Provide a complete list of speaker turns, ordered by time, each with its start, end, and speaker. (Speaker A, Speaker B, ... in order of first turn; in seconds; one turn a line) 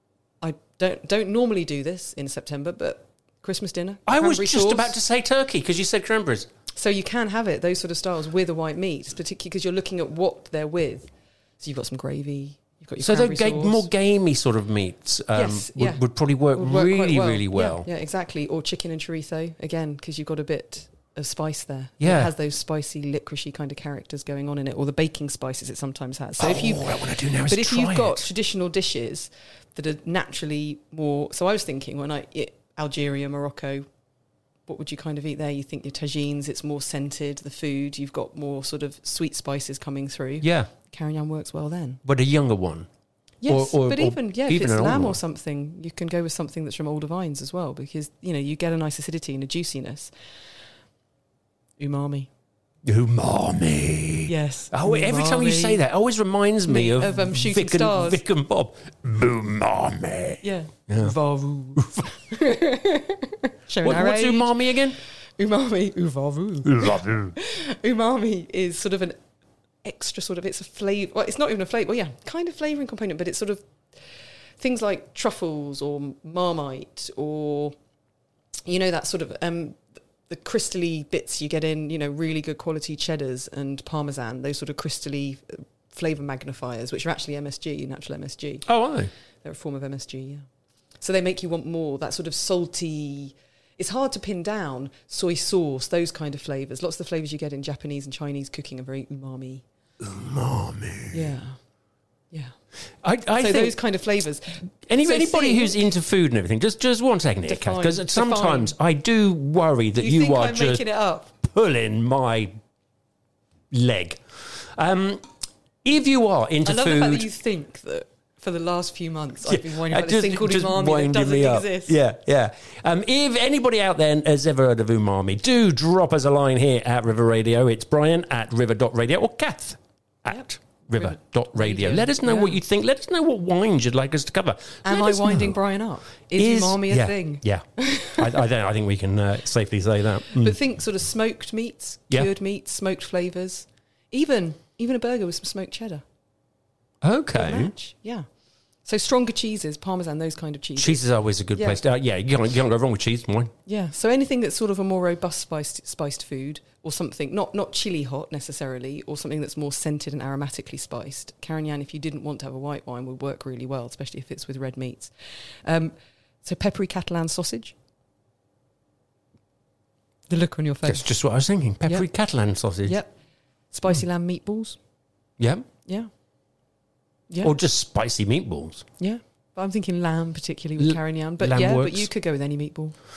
Speaker A: 0.4-5.0
Speaker B: 4.1-6.5
Speaker A: 6.8-11.1
Speaker A: 11.6-13.9
Speaker B: 13.0-17.9
Speaker A: 15.3-33.9
Speaker B: 22.0-22.3
Speaker B: 26.4-28.3
Speaker A: 34.7-42.0
Speaker B: 40.4-40.7
Speaker B: 42.0-42.9
Speaker A: 43.4-50.1
Speaker B: 43.5-45.2
Speaker A: 51.8-52.3
Speaker B: 52.9-61.1
Speaker A: 54.3-55.8
Speaker A: 56.7-58.2
Speaker A: 60.4-64.6
Speaker B: 61.8-62.0
Speaker B: 63.8-65.0
Speaker A: 65.4-69.2
Speaker B: 66.7-67.3
Speaker A: 69.8-73.6
Speaker A: 74.6-77.8
Speaker A: 78.7-88.7
Speaker B: 88.7-89.1
Speaker A: 89.4-90.5
Speaker A: 91.0-99.6
Speaker B: 100.0-101.3
Speaker A: 101.1-101.6
Speaker B: 103.0-103.8
Speaker A: 103.4-105.8
Speaker B: 104.9-110.8
Speaker A: 107.5-108.8
Speaker A: 110.0-111.3
Speaker B: 111.4-112.6
Speaker B: 113.7-115.2
Speaker B: 115.8-117.3
Speaker A: 116.7-122.0
Speaker B: 119.5-135.6
Speaker A: 130.3-132.6
Speaker A: 134.8-138.3
Speaker B: 136.4-140.6
Speaker A: 140.3-146.0
Speaker B: 147.0-147.7
Speaker A: 147.3-148.3
Speaker A: 148.8-151.0
Speaker B: 150.8-153.5
Speaker A: 151.5-151.8
Speaker A: 153.7-165.1
Speaker A: 165.7-167.7
Speaker A: 170.3-171.1
Speaker B: 170.8-173.0
Speaker A: 172.8-173.1
Speaker A: 173.7-174.8
Speaker B: 175.4-175.7
Speaker A: 177.3-177.6
Speaker B: 177.4-178.8
Speaker A: 179.0-182.9
Speaker B: 180.8-182.1